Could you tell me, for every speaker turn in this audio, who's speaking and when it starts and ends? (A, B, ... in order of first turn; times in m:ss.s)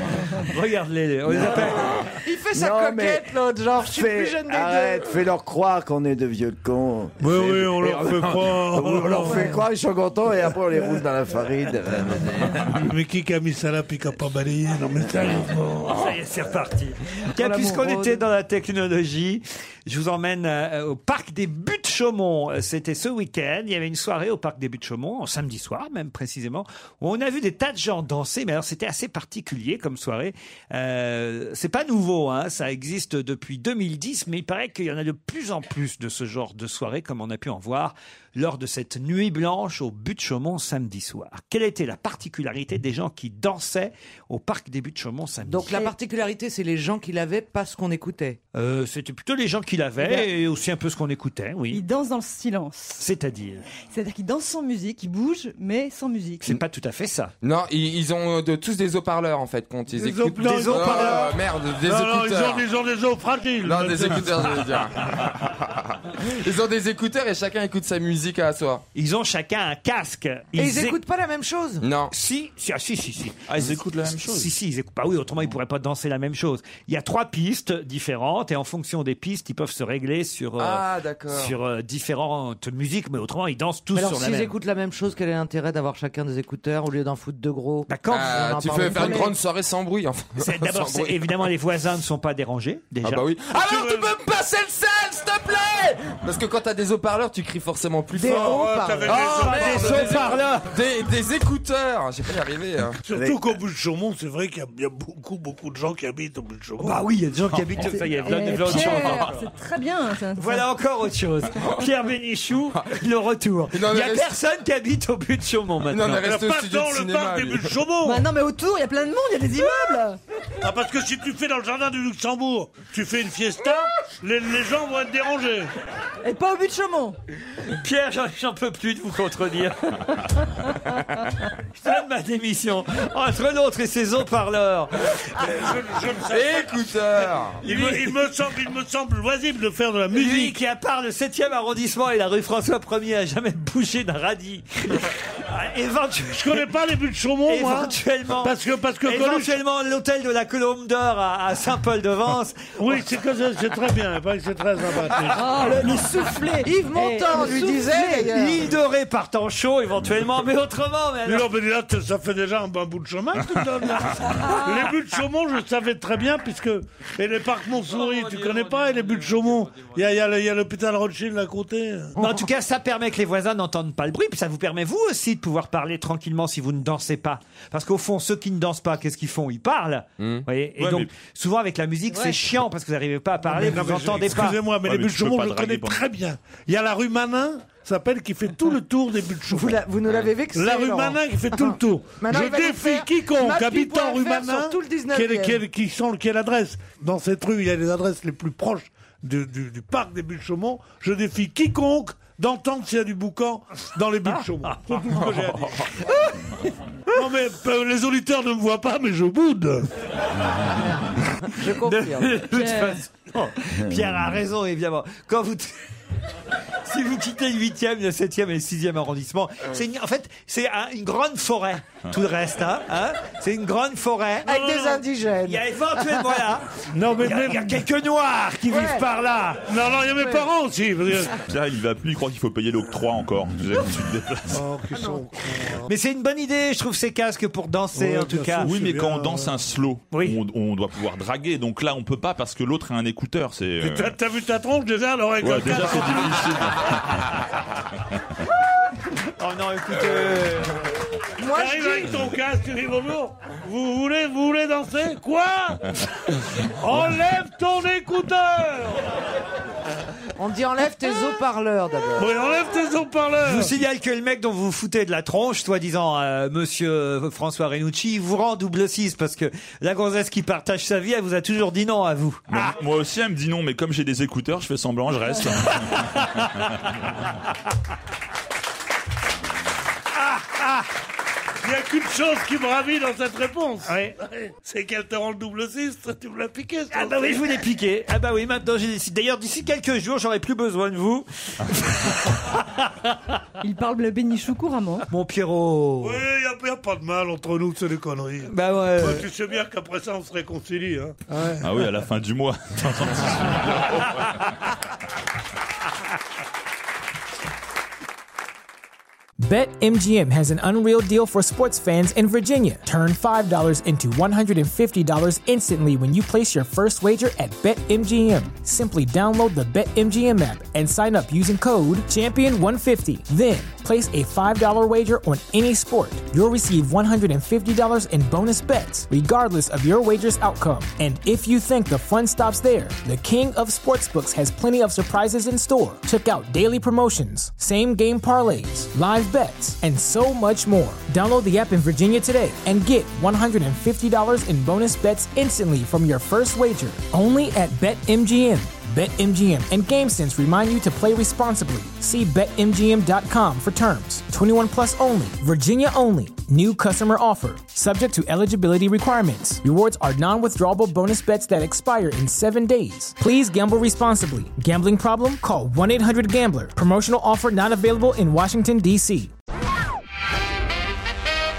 0:00.3-0:02.0 A
0:01.3-0:01.9 B
0:02.2-0:05.1 C
0:02.5-0:12.8 B
0:07.2-0:09.4 D
0:09.2-0:09.6 C
0:12.7-0:16.1 D
0:15.9-0:45.8 A
0:17.4-0:18.2 C
0:45.5-0:48.4 C
0:48.5-0:51.8 A
0:50.0-0:50.3 E
0:51.7-0:53.0 E
0:53.0-0:53.6 A
0:53.9-0:56.5 E
0:56.4-0:57.3 A
0:57.4-1:02.7 F
0:59.9-1:04.7 D
1:00.4-1:01.3 A
1:03.6-1:08.8 F
1:09.0-1:11.0 A
1:10.6-1:11.9 C
1:11.8-1:12.1 F
1:12.1-1:13.4 A
1:13.5-1:14.5 G
1:14.2-1:24.5 A
1:20.6-1:21.5 F
1:24.0-1:29.4 C
1:27.9-1:29.2 A
1:28.1-1:31.5 F
1:30.4-1:33.2 A
1:33.0-1:43.0 F
1:33.6-1:34.2 D
1:38.1-1:40.1 C
1:38.2-1:40.5 D
1:39.1-1:40.7 A
1:43.0-1:47.0 D
1:43.1-1:43.4 B
1:46.8-1:49.4 A
1:47.8-1:50.7 E
1:50.4-1:56.2 A
1:53.7-1:54.4 F
1:55.9-1:57.8 F
1:56.1-1:58.3 D
1:58.0-2:00.2 E
2:00.6-2:05.7 D
2:06.2-2:07.2 E
2:07.7-2:10.2 A
2:11.8-2:14.9 A
2:15.4-2:16.8 D
2:16.3-2:17.7 F
2:17.6-2:20.6 D
2:17.6-2:18.0 A
2:20.1-2:26.6 A
2:26.3-2:29.6 D
2:27.5-2:28.5 A
2:29.0-2:33.0 A
2:32.8-2:35.4 D
2:35.3-2:38.4 E
2:35.5-2:38.7 C
2:38.3-2:41.5 A
2:41.2-2:52.2 D
2:44.4-2:45.0 E
2:48.2-2:49.2 A
2:52.2-3:04.6 A
3:00.2-3:00.4 F
3:00.8-3:01.1 G
3:03.4-3:09.8 D
3:04.7-3:06.0 G
3:09.5-3:15.6 C
3:10.5-3:25.9 D
3:24.3-3:24.8 A
3:25.6-3:25.9 F
3:27.1-3:29.9 D
3:30.8-3:32.4 C
3:31.8-3:35.7 A
3:32.5-3:33.0 E
3:36.8-3:44.6 A
3:44.4-3:45.6 C
3:44.5-3:45.0 D
3:45.4-3:49.7 A
3:46.9-3:47.8 D
3:48.7-3:49.0 C
3:49.7-3:51.4 D
3:51.4-3:54.6 G
3:54.5-3:55.9 D
3:54.9-3:55.2 C
3:55.9-3:58.7 A
3:57.9-3:59.6 D
3:58.6-4:04.2 G
4:00.1-4:00.4 A
4:03.8-4:06.8 D
4:05.4-4:07.4 G
4:09.4-4:10.8 A
4:11.4-4:12.2 C
4:11.5-4:15.9 D
4:16.6-4:19.1 D
4:20.4-4:22.3 C
4:22.2-4:23.7 D
4:23.4-4:32.7 A
4:32.5-4:36.9 G
4:36.0-4:36.2 A
4:40.2-4:40.9 A
4:41.6-4:47.5 D
4:43.9-4:44.1 A
4:46.9-4:52.9 A
4:53.6-4:55.1 E
4:55.1-4:56.2 A
4:56.0-5:01.8 D
4:58.5-4:59.3 A
5:01.6-5:04.5 G
5:09.4-6:09.3 H